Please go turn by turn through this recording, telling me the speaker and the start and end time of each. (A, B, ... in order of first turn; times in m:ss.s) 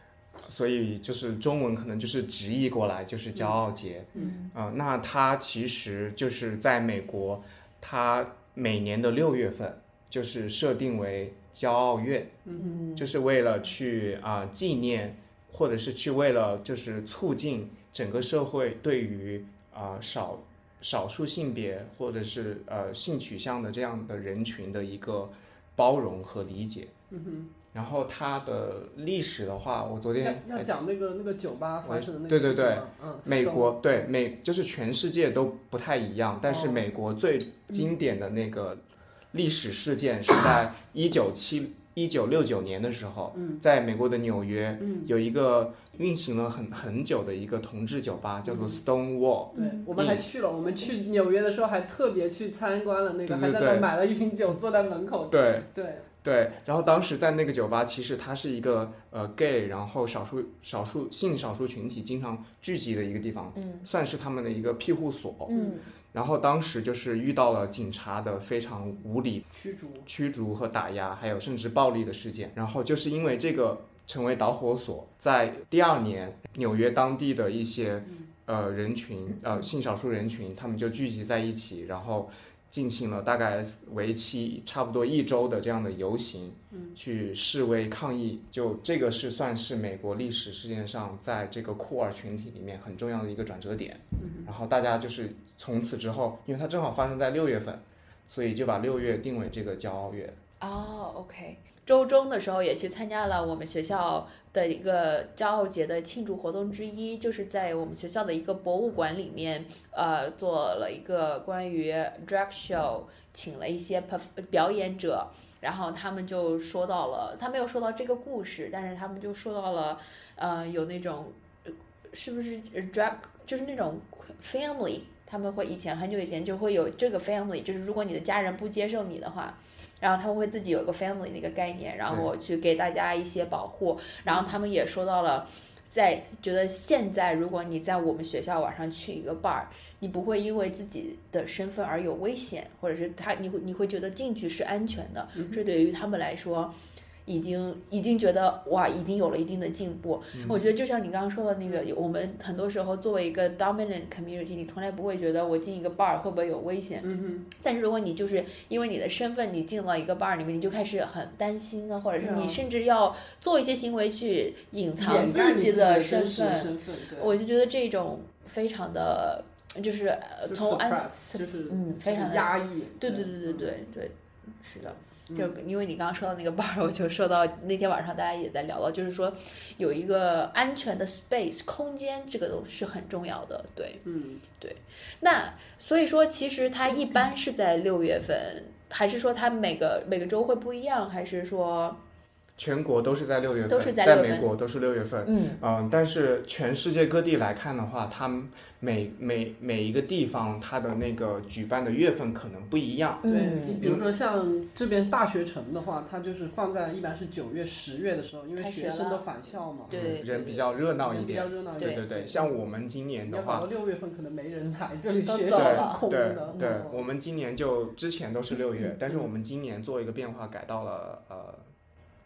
0:00.4-0:12.4 A
0:04.1-0:04.5 B
0:12.4-0:12.8 C
0:12.5-0:13.1 B
0:13.0-0:26.9 A
0:27.1-0:27.5 C
0:27.7-0:30.7 A
0:30.2-0:34.1 C
0:31.8-0:50.2 A
0:36.4-0:36.9 C
0:43.3-0:43.6 C
0:44.8-0:45.1 C
0:48.4-0:48.8 C
0:49.5-0:56.1 C
0:49.5-0:49.9 B
0:53.3-0:53.9 A
0:55.3-0:55.7 A
0:56.2-1:05.5 A
1:03.5-1:03.9 B
1:05.5-1:05.9 B
1:05.5-1:05.8 C
1:06.1-1:09.4 A
1:09.5-1:10.1 C
1:10.1-1:40.4 A
1:26.7-1:27.0 C
1:34.2-1:34.5 C
1:40.6-2:01.4 B
2:02.1-2:26.7 B
2:25.4-2:25.6 C
2:27.2-3:12.0 B
2:30.3-2:30.6 A
2:37.0-2:37.5 C
2:42.2-2:42.6 C
2:45.0-2:47.4 C
2:50.5-2:53.7 C
3:04.0-3:04.4 C
3:12.6-3:23.2 A
3:13.7-3:14.5 B
3:15.2-3:15.6 B
3:23.2-3:23.9 B
3:23.2-3:32.5 C
3:28.6-3:29.3 B
3:29.9-3:30.6 B
3:29.9-3:33.7 A
3:31.8-3:32.0 B
3:33.2-3:37.0 C
3:35.2-3:36.8 B
3:35.5-3:41.6 A